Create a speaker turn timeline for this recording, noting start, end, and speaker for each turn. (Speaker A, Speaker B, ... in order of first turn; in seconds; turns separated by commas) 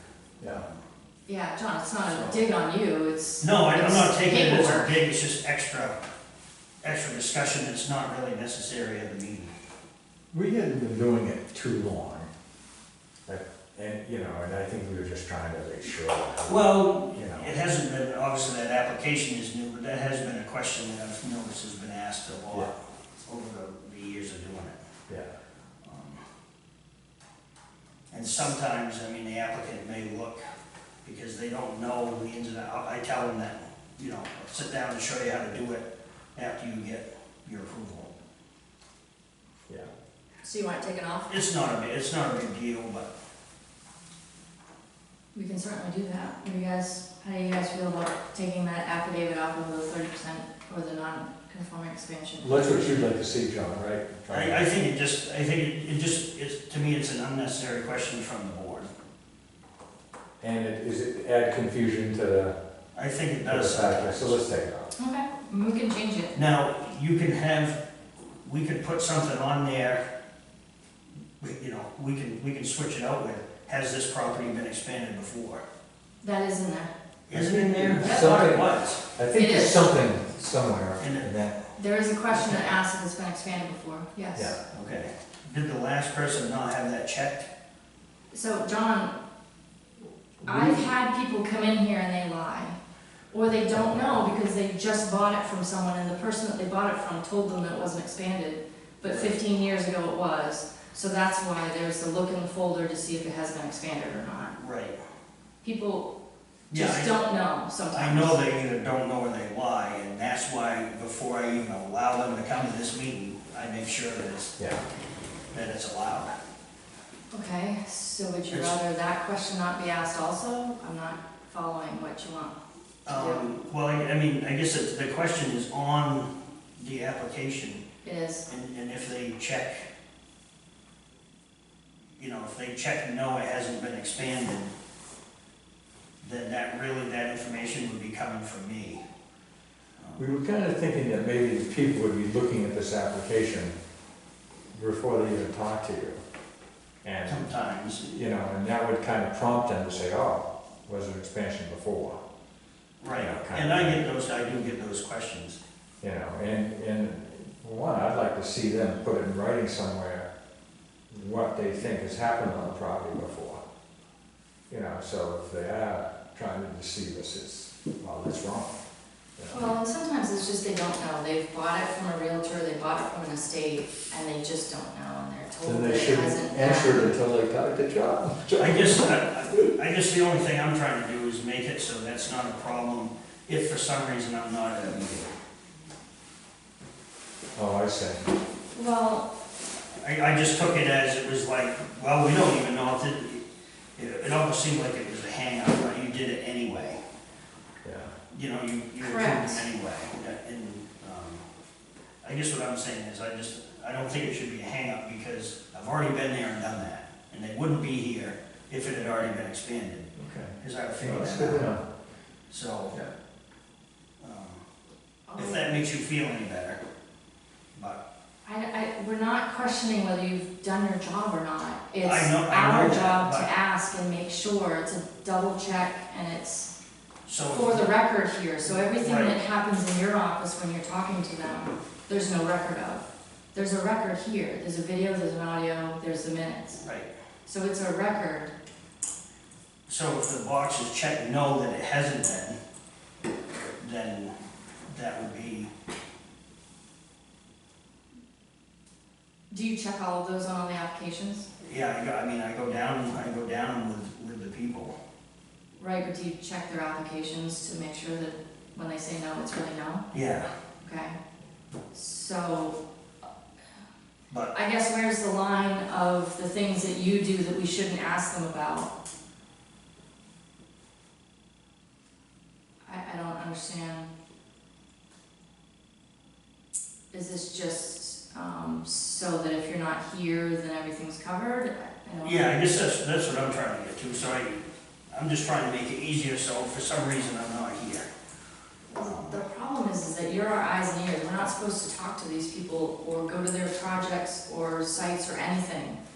Speaker A: 0.5-0.8, Speaker B: 1.2-5.0, Speaker A: 2.1-2.4, Speaker A: 3.4-6.0, Speaker A: 6.8-9.5, Speaker C: 10.3-12.3, Speaker C: 13.2-17.5, Speaker A: 16.4-22.7, Speaker A: 23.3-24.8, Speaker A: 25.8-26.2, Speaker A: 28.1-30.4, Speaker A: 31.0-38.1, Speaker B: 40.4-41.3, Speaker A: 41.3-43.1, Speaker B: 45.3-53.0, Speaker C: 52.4-54.6, Speaker A: 54.3-58.9, Speaker C: 60.4-62.5, Speaker A: 63.0-64.4, Speaker C: 63.5-64.9, Speaker B: 65.0-66.3, Speaker A: 66.3-67.8, Speaker A: 68.4-70.0, Speaker A: 71.4-75.6, Speaker B: 76.2-76.9, Speaker A: 77.3-79.0, Speaker C: 77.3-81.6, Speaker B: 78.0-78.4, Speaker B: 79.3-80.0, Speaker A: 81.0-81.4, Speaker B: 81.8-84.5, Speaker C: 84.3-84.6, Speaker A: 84.7-87.5, Speaker B: 88.3-89.2, Speaker C: 90.4-90.8, Speaker B: 90.4-92.8, Speaker B: 93.3-104.5, Speaker C: 93.7-94.2, Speaker A: 99.0-99.4, Speaker A: 104.5-105.0, Speaker B: 105.6-106.1, Speaker A: 106.7-107.1, Speaker B: 106.7-108.4, Speaker A: 107.9-114.6, Speaker A: 115.5-116.3, Speaker B: 117.3-123.5, Speaker A: 118.5-118.8, Speaker A: 123.1-127.8, Speaker B: 128.0-128.5, Speaker A: 128.5-129.9, Speaker A: 132.2-134.7, Speaker A: 136.2-139.0, Speaker A: 140.0-140.2, Speaker C: 140.2-143.7, Speaker C: 144.7-146.2, Speaker C: 147.0-147.5, Speaker A: 147.2-148.1, Speaker C: 148.0-152.2, Speaker A: 153.0-155.6, Speaker C: 153.2-154.1, Speaker C: 156.0-160.3, Speaker C: 161.1-163.6, Speaker C: 164.7-168.7, Speaker C: 169.4-169.6, Speaker B: 169.5-177.1, Speaker C: 175.6-179.2, Speaker A: 178.6-185.3, Speaker C: 187.6-188.3, Speaker B: 188.8-189.3, Speaker A: 190.0-193.4, Speaker A: 194.0-197.0, Speaker C: 197.8-198.1, Speaker A: 198.3-201.4, Speaker B: 199.0-199.7, Speaker A: 202.2-211.7, Speaker C: 210.2-211.8, Speaker A: 212.5-213.0, Speaker A: 214.2-214.6, Speaker B: 215.3-215.8, Speaker A: 215.4-216.8, Speaker A: 217.7-218.0, Speaker B: 218.4-226.7, Speaker A: 222.0-223.5, Speaker A: 227.2-227.9, Speaker B: 227.5-236.8, Speaker A: 228.8-229.4, Speaker A: 236.8-237.1, Speaker B: 237.5-238.5, Speaker A: 239.9-242.6, Speaker A: 243.8-244.3, Speaker A: 244.9-245.7, Speaker B: 249.5-251.5, Speaker A: 251.6-254.9, Speaker B: 255.8-260.1, Speaker A: 260.1-260.5, Speaker B: 260.8-261.2, Speaker B: 261.9-262.8, Speaker A: 264.3-264.6, Speaker B: 264.5-268.9, Speaker B: 272.9-274.1, Speaker B: 277.1-282.8, Speaker A: 282.2-288.1, Speaker A: 288.9-289.4, Speaker B: 288.9-296.0